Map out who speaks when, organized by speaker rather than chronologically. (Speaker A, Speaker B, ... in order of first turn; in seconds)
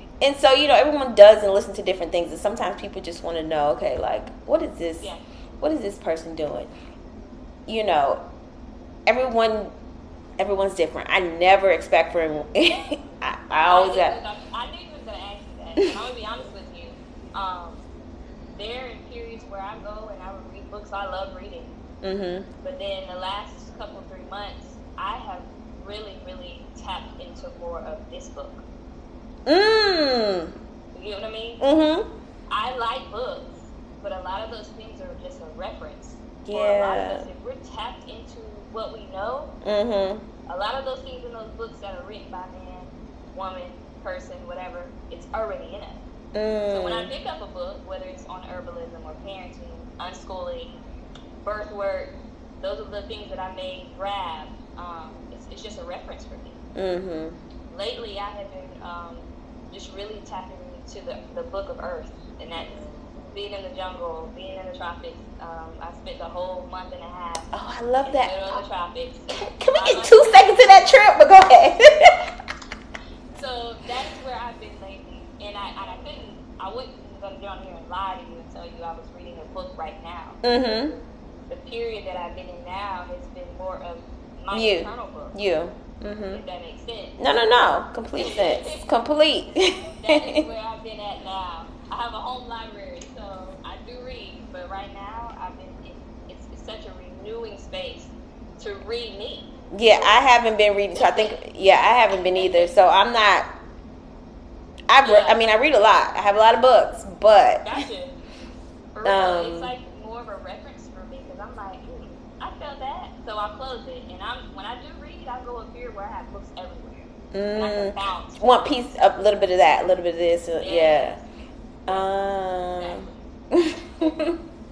Speaker A: 0.2-5.1, 5.6-6.7, 7.7-8.2, 9.1-9.7, 10.4-14.2, 22.0-22.5, 29.5-30.5, 31.6-32.1, 36.5-37.3, 39.6-40.3, 46.3-47.1, 56.8-57.4, 67.5-68.6, 69.4-72.2, 80.4-81.0, 84.5-86.4, 87.2-90.5, 99.7-103.5, 104.9-107.8, 109.0-109.7, 117.3-121.2, 121.9-124.4
Speaker B: 13.6-17.8, 18.6-21.8, 22.6-28.6, 30.9-31.6, 32.5-39.5, 40.5-46.0, 46.7-50.7, 51.4-56.6, 57.7-67.5, 68.0-70.6, 73.3-80.4, 81.5-85.3, 86.3-87.2, 88.2-88.9, 89.9-100.2, 101.0-101.4, 102.2-102.7, 105.0-105.4, 107.6-108.1, 109.0-118.5, 120.6-121.2, 122.7-123.2, 124.0-124.3